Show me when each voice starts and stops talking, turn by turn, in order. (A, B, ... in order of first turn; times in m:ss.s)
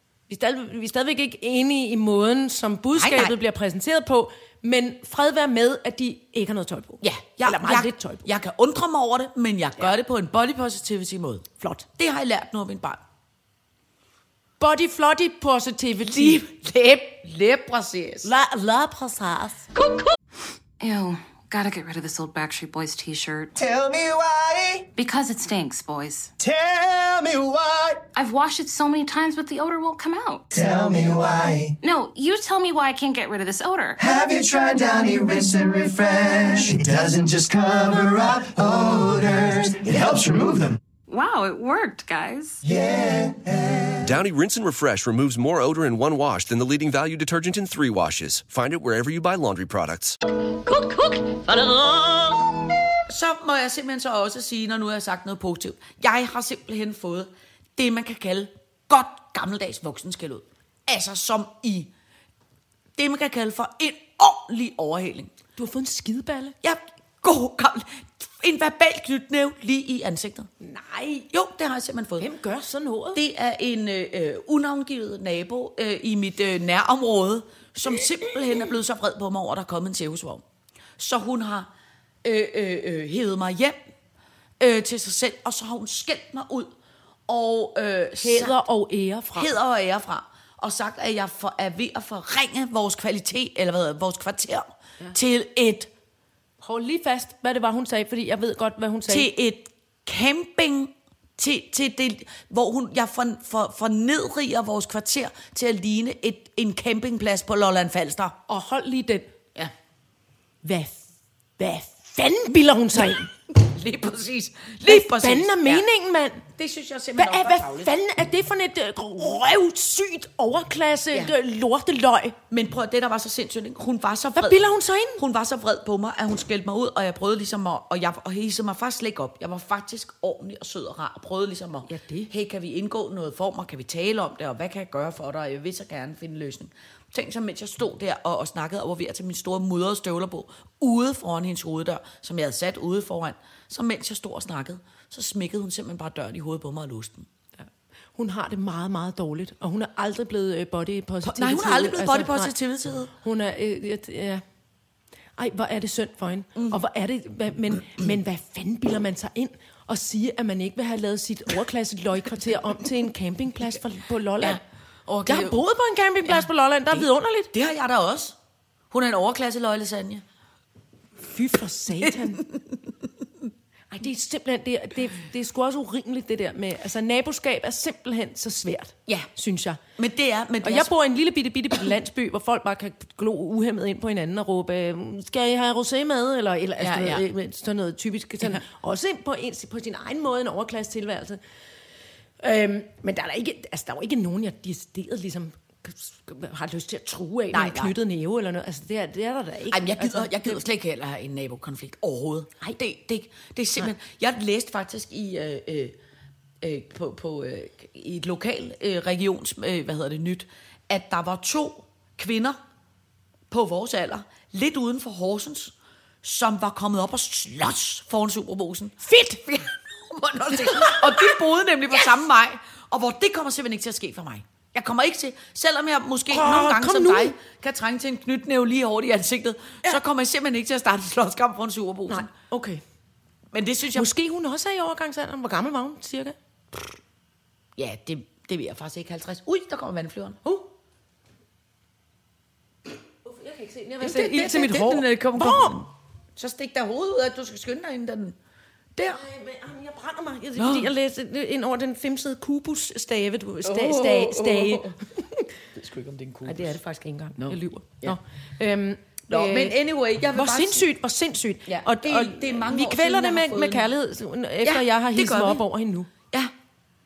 0:00.3-0:08.3 A
0:02.9-0:03.4 B
0:07.0-0:13.0 B
0:11.6-0:11.9 A
0:14.6-0:16.4 A
0:16.1-0:18.3 B
0:18.2-0:19.7 A
0:19.7-0:20.2 C
0:20.8-0:23.6 D
0:23.6-0:24.9 E
0:25.0-0:26.3 D
0:26.4-0:28.0 E
0:28.2-0:30.5 D
0:30.5-0:31.8 E
0:31.8-0:34.0 D
0:34.0-0:40.8 E
0:41.1-0:42.6 D
0:42.6-0:44.1 E
0:44.0-0:50.2 F
0:50.3-0:52.8 C
0:53.1-1:01.9 B
1:03.0-1:05.3 B
1:05.6-1:06.6 A
1:06.6-1:10.5 B
1:10.6-1:11.3 A
1:11.3-1:12.3 B
1:12.2-1:13.2 A
1:13.1-1:20.4 B
1:21.0-1:21.7 B
1:22.2-1:23.8 B
1:24.6-1:26.7 B
1:27.3-1:28.6 B
1:28.2-1:29.5 A
1:29.4-1:35.9 B
1:36.6-1:39.3 A
1:39.1-1:48.4 B
1:48.5-1:49.3 A
1:50.6-1:53.3 A
1:53.5-1:55.9 B
1:54.8-1:56.4 A
1:56.5-1:57.9 B
1:57.2-2:02.4 A
2:02.5-2:27.3 B
2:04.4-2:05.2 A
2:11.9-2:12.3 A
2:28.2-2:32.5 A
2:31.2-2:33.1 B
2:33.1-2:34.4 A
2:35.4-2:44.6 A
2:44.4-2:45.6 B
2:45.3-2:47.5 A
2:46.3-2:48.4 B
2:48.9-2:50.2 B
2:51.2-2:52.4 A
2:52.0-2:52.6 B
2:53.9-2:59.8 A
3:00.0-3:00.9 B
3:00.6-3:11.4 A
3:06.8-3:07.2 B
3:12.4-3:20.6 A
3:17.5-3:18.0 B
3:19.7-3:26.0 B
3:26.6-3:32.6 B
3:33.5-3:52.3 B
3:39.0-3:39.6 A
3:40.5-3:41.4 A
3:46.3-3:47.4 A
3:52.1-3:52.8 A
3:53.5-3:54.1 B
3:53.9-3:56.4 A
3:57.8-4:00.4 B
4:03.2-4:05.8 A
4:04.0-4:08.4 B
4:09.0-4:09.2 B
4:09.1-4:15.5 A
4:10.6-4:10.9 B
4:13.6-4:15.0 B
4:15.7-4:16.8 B
4:16.4-4:19.8 A
4:17.4-4:18.2 B
4:19.3-4:20.9 B
4:20.3-4:26.1 A
4:21.7-4:23.9 B
4:24.6-4:25.6 B